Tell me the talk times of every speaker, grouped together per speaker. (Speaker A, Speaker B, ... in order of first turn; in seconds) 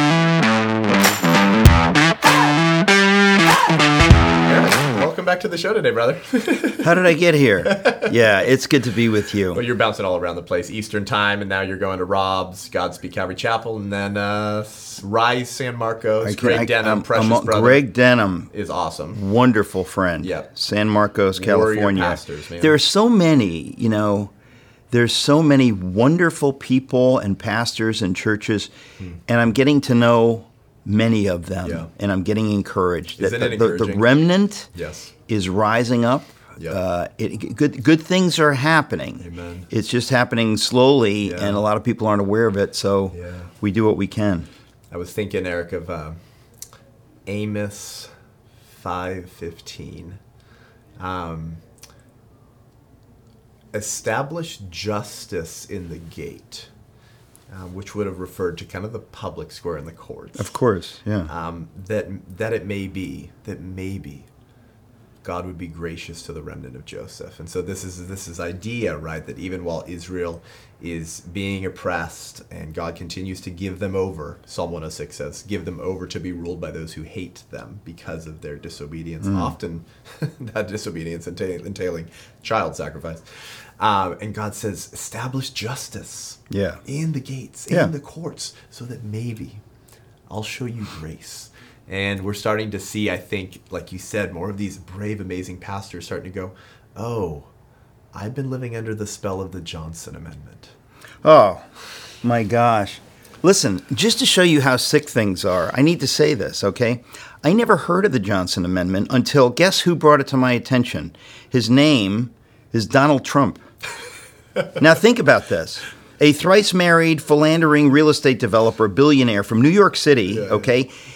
Speaker A: 4.4-7.1, 7.6-8.2, 9.5-17.8, 18.5-19.2, 20.2-20.5, 21.3-22.8, 31.6-31.9, 33.2-34.1, 34.7-35.1, 39.2-39.7, 41.2-41.6, 43.1-43.5, 44.9-46.2, 47.3-48.1, 48.7-50.2, 51.0-51.6, 53.7-56.7, 57.5-60.5, 61.3-64.3, 65.2-83.2, 83.8-89.6, 90.3-97.5, 98.1-100.7, 120.3-120.7
Speaker B: 6.8-9.6, 16.2-18.5, 19.1-24.3, 24.9-28.7, 29.3-34.7, 35.3-44.5, 60.4-61.3, 79.2-79.5, 86.5-86.8, 101.2-101.7, 102.2-113.7, 114.8-120.9